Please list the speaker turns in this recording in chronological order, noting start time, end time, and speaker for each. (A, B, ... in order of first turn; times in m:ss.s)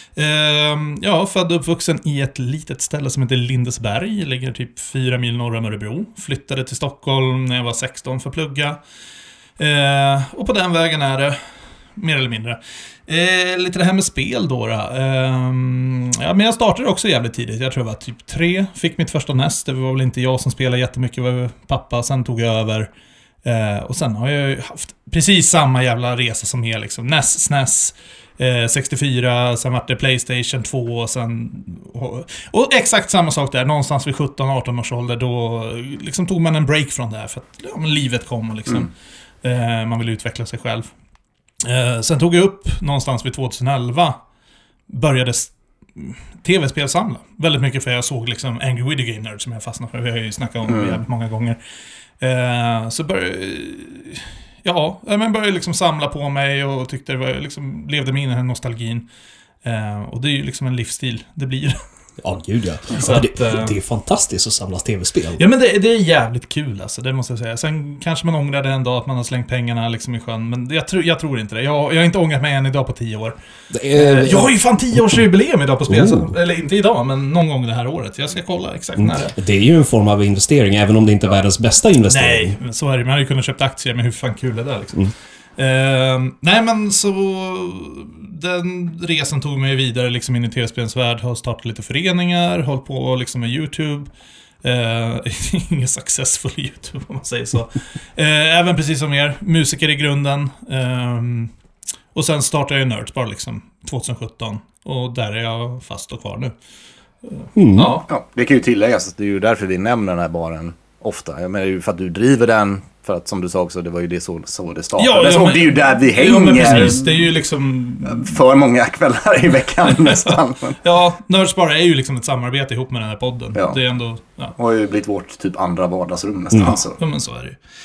0:00.2-0:08.8 A
0:09.6-0:11.4 A
0:12.0-0:22.9 A
0:23.4-0:38.9 A
0:39.4-0:40.9 A
0:41.6-0:44.2 A
0:44.9-0:51.6 A
0:50.6-0:51.0 B
0:52.2-0:59.0 A
0:59.6-1:01.8 A
1:02.2-1:05.4 C
1:02.9-1:03.8 A
1:05.4-1:13.3 A
1:13.7-1:15.2 C
1:13.9-1:19.3 A
1:15.8-1:16.3 C
1:19.0-1:22.6 C
1:22.1-1:34.1 A
1:34.6-1:41.5 A
1:42.1-1:46.5 A
1:47.2-1:48.1 A
1:47.5-1:48.0 C
1:48.1-1:57.2 B
1:55.0-1:58.3 A
1:58.0-2:00.8 B
1:59.8-2:04.6 A
2:04.6-2:07.0 B
2:06.6-2:07.6 A